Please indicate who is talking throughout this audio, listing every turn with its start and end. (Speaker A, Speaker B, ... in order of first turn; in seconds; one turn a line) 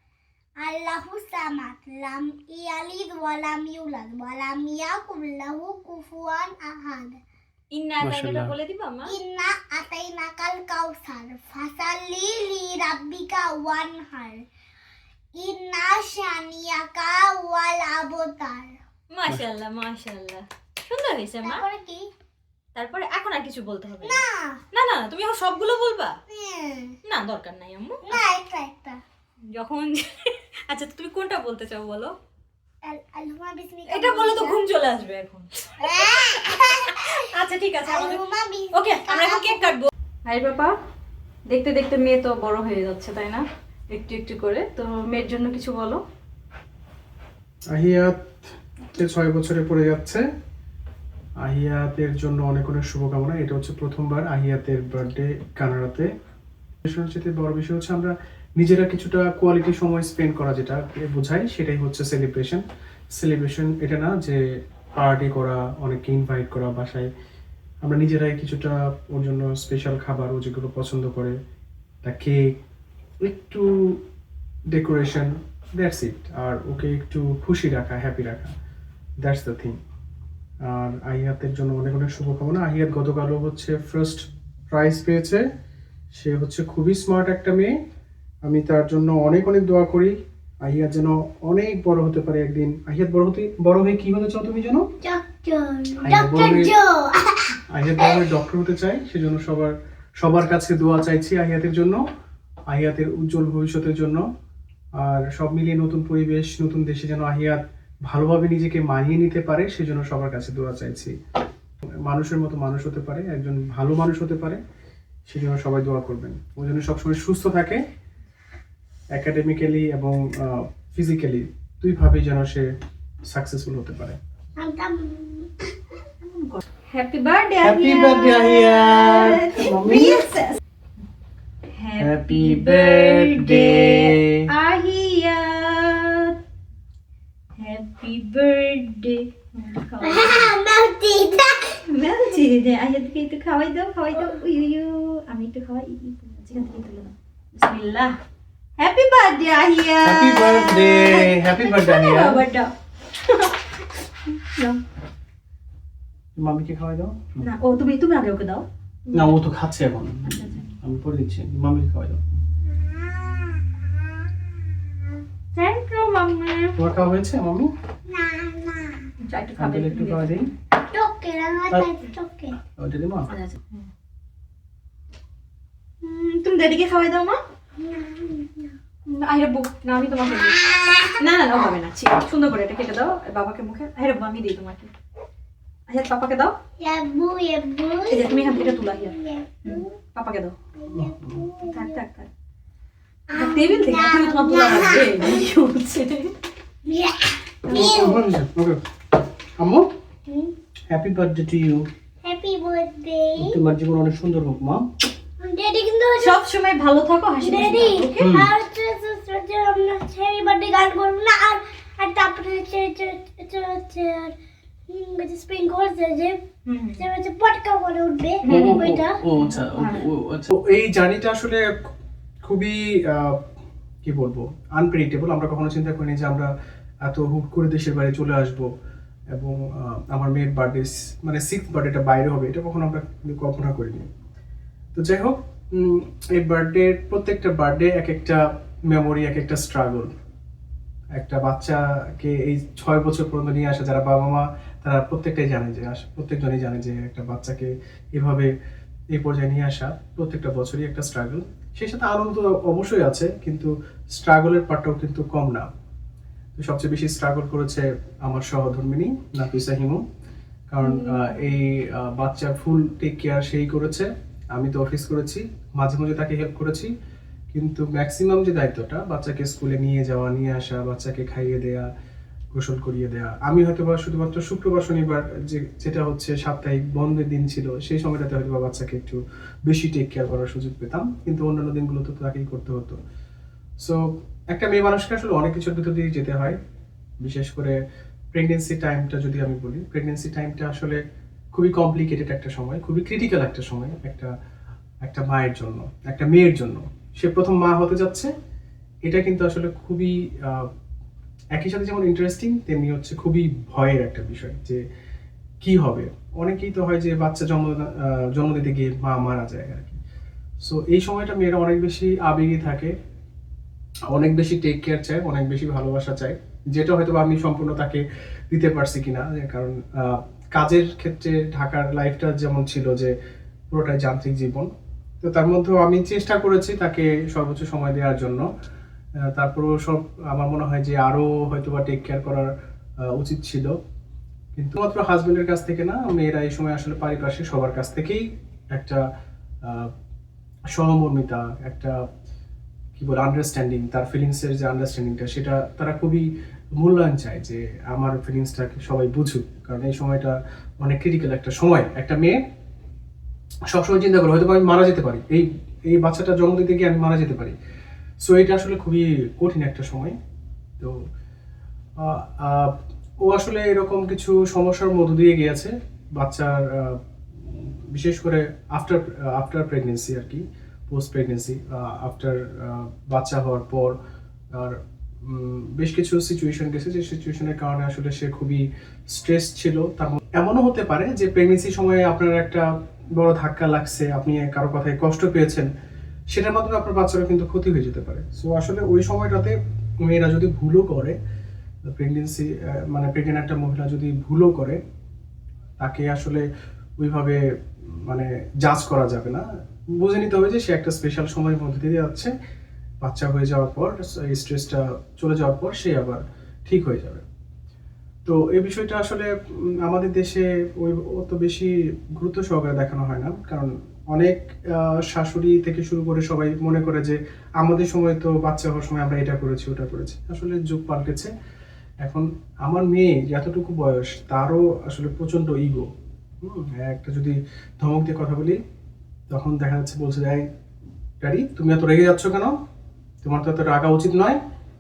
Speaker A: 0.6-7.2
Speaker B: 7.7-9.2
Speaker C: 8.0-8.5
Speaker A: 9.1-14.4
Speaker A: 15.4-18.8
Speaker B: 19.1-21.6
Speaker A: 21.4-22.1
Speaker B: 22.8-26.2
Speaker A: 24.0-24.6
Speaker A: 26.3-27.0
Speaker B: 27.1-28.2
Speaker A: 28.0-29.0
Speaker B: 29.5-32.1
Speaker A: 32.8-34.6
Speaker B: 33.9-38.2
Speaker A: 35.8-37.3
Speaker A: 37.9-39.8
Speaker B: 38.7-40.7
Speaker B: 41.5-46.0
Speaker C: 47.7-50.2
Speaker C: 51.4-56.1
Speaker C: 56.8-62.6
Speaker C: 63.2-64.4
Speaker C: 65.0-67.1
Speaker C: 67.8-71.4
Speaker C: 72.0-72.5
Speaker C: 73.2-74.0
Speaker C: 74.7-78.6
Speaker C: 79.2-79.8
Speaker C: 80.6-85.5
Speaker C: 86.1-87.8
Speaker C: 88.5-94.9
Speaker A: 95.0-98.3
Speaker C: 96.0-96.7
Speaker C: 97.7-102.0
Speaker C: 102.7-104.2
Speaker C: 105.0-111.1
Speaker C: 111.8-114.6
Speaker C: 115.3-117.8
Speaker C: 119.1-122.7
Speaker C: 123.3-124.2
Speaker A: 124.6-125.5
Speaker B: 126.2-130.6
Speaker C: 127.6-130.3
Speaker B: 131.8-136.4
Speaker C: 132.0-134.4
Speaker B: 137.6-140.5
Speaker A: 140.0-141.8
Speaker B: 141.9-148.2
Speaker B: 148.8-154.8
Speaker C: 150.0-152.5
Speaker C: 156.4-157.3
Speaker B: 157.4-159.4
Speaker C: 159.1-162.2
Speaker B: 160.3-160.7
Speaker A: 162.7-164.2
Speaker B: 165.6-166.8
Speaker C: 166.8-167.7
Speaker A: 168.1-169.1
Speaker B: 169.2-170.5
Speaker C: 169.6-170.5
Speaker A: 170.9-172.5
Speaker C: 172.7-173.3
Speaker B: 173.3-173.8
Speaker B: 176.0-177.4
Speaker A: 177.8-178.8
Speaker B: 179.1-180.6
Speaker A: 180.3-181.2
Speaker B: 181.2-184.9
Speaker B: 185.9-186.6
Speaker A: 186.8-189.9
Speaker B: 188.1-190.6
Speaker A: 190.8-192.0
Speaker C: 190.9-191.5
Speaker B: 191.6-192.3
Speaker A: 193.3-195.5
Speaker B: 193.3-196.3
Speaker A: 196.9-198.3
Speaker B: 197.7-198.1
Speaker C: 197.7-198.8
Speaker C: 199.6-199.9
Speaker A: 200.3-200.5
Speaker C: 200.9-201.9
Speaker A: 202.2-203.6
Speaker C: 203.4-204.9
Speaker A: 205.4-206.4
Speaker B: 206.2-208.3
Speaker A: 207.4-214.3
Speaker C: 208.2-208.5
Speaker A: 214.9-216.4
Speaker B: 216.7-217.0
Speaker A: 217.0-219.2
Speaker B: 218.4-220.1
Speaker C: 218.5-221.9
Speaker C: 222.4-223.5
Speaker C: 224.0-226.5
Speaker C: 227.0-228.7
Speaker C: 229.3-234.1
Speaker C: 234.9-240.1
Speaker C: 241.2-248.5
Speaker C: 249.1-255.7
Speaker C: 256.6-260.0
Speaker C: 260.7-266.9
Speaker B: 260.8-261.4
Speaker C: 267.5-271.9
Speaker C: 272.5-283.0
Speaker C: 283.8-286.6
Speaker C: 287.2-287.8
Speaker C: 288.3-291.0
Speaker C: 291.5-294.3
Speaker C: 295.0-298.3
Speaker C: 299.1-300.7
Speaker C: 301.5-304.8
Speaker C: 305.6-310.0
Speaker C: 310.6-312.9
Speaker C: 314.1-323.1
Speaker C: 323.7-324.7
Speaker C: 325.2-328.5
Speaker C: 329.3-332.5
Speaker C: 333.1-333.7
Speaker C: 334.6-339.0
Speaker C: 339.6-339.9
Speaker C: 340.7-342.0
Speaker C: 343.0-352.4
Speaker C: 353.7-357.5
Speaker C: 358.2-360.2
Speaker C: 362.0-373.9
Speaker C: 374.6-385.7
Speaker C: 386.3-391.2
Speaker C: 391.9-394.8
Speaker C: 395.8-396.5
Speaker C: 397.0-399.4
Speaker C: 400.0-402.3
Speaker C: 403.0-407.2
Speaker C: 408.2-421.3
Speaker C: 422.0-425.9
Speaker C: 426.4-428.6
Speaker C: 429.3-430.5
Speaker C: 431.2-432.6
Speaker C: 433.2-434.4